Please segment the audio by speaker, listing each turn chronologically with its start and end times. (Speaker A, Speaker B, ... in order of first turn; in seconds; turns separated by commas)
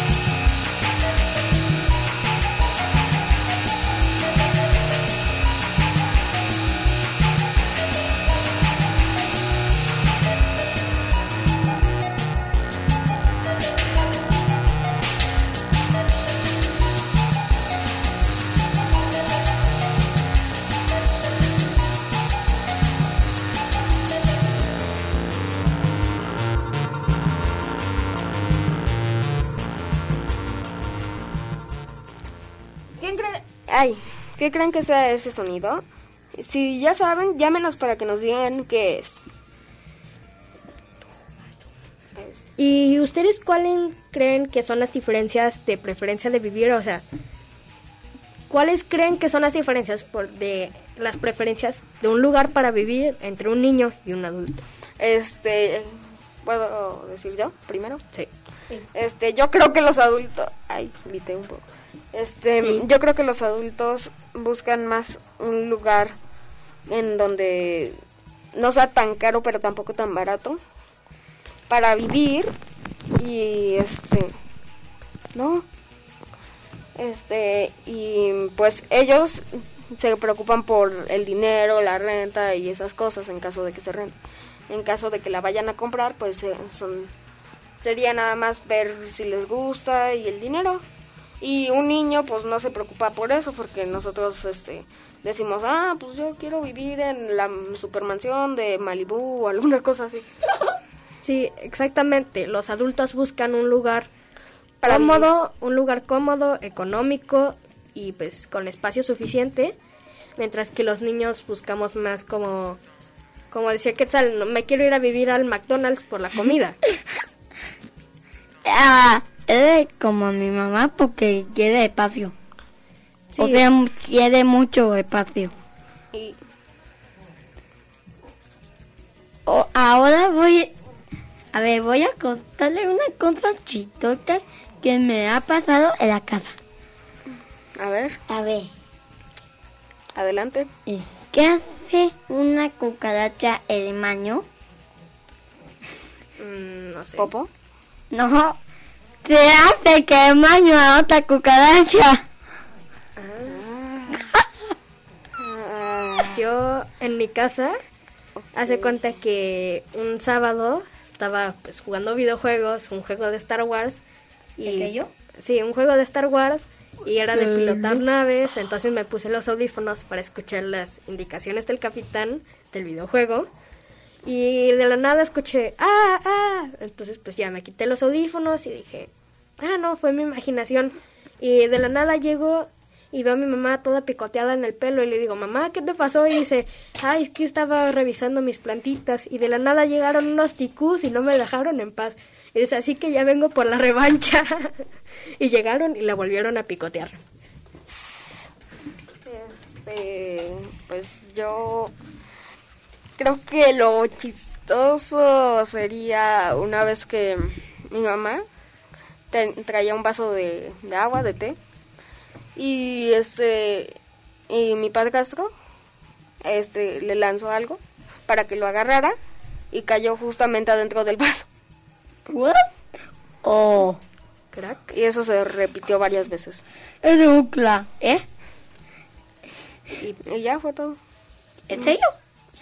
Speaker A: 33.0-39.2, Speaker A: 42.2-42.5, Speaker B: 42.6-47.0, Speaker B: 48.5-54.7, Speaker A: 55.0-58.0, Speaker A: 58.9-66.2, Speaker A: 66.9-68.0, Speaker A: 68.5-70.6, Speaker A: 71.7-72.5, Speaker A: 73.2-74.3, Speaker A: 75.3-75.7, Speaker A: 77.0-84.2, Speaker A: 84.7-87.1, Speaker A: 87.8-90.8, Speaker A: 91.4-100.3, Speaker B: 101.2-104.1, Speaker A: 104.8-105.3, Speaker B: 104.8-109.8, Speaker B: 110.4-112.8, Speaker B: 113.5-116.8, Speaker C: 118.7-122.3, Speaker B: 123.3-123.7, Speaker C: 123.4-125.5, Speaker A: 126.1-126.4, Speaker C: 129.5-130.7, Speaker C: 131.5-136.6, Speaker A: 137.8-138.2, Speaker C: 138.3-138.7, Speaker A: 140.2-140.7, Speaker C: 140.9-144.4, Speaker B: 146.4-147.3, Speaker A: 147.2-147.5, Speaker C: 148.1-148.6, Speaker C: 149.2-152.2, Speaker B: 153.2-153.6, Speaker A: 153.5-154.2, Speaker A: 155.4-156.4, Speaker B: 156.3-157.8, Speaker B: 158.5-164.0, Speaker A: 158.6-158.9, Speaker C: 164.6-165.1, Speaker B: 164.6-173.5, Speaker B: 174.2-194.8, Speaker B: 195.4-197.2, Speaker A: 199.2-201.9, Speaker A: 203.2-208.4, Speaker A: 209.3-211.6, Speaker A: 212.6-214.0, Speaker A: 214.5-215.5, Speaker A: 216.4-219.2, Speaker A: 219.7-221.5, Speaker C: 222.3-222.7, Speaker C: 223.4-224.0, Speaker B: 224.5-224.9, Speaker A: 224.9-226.6, Speaker C: 227.0-228.2, Speaker A: 230.3-231.0, Speaker C: 231.7-232.1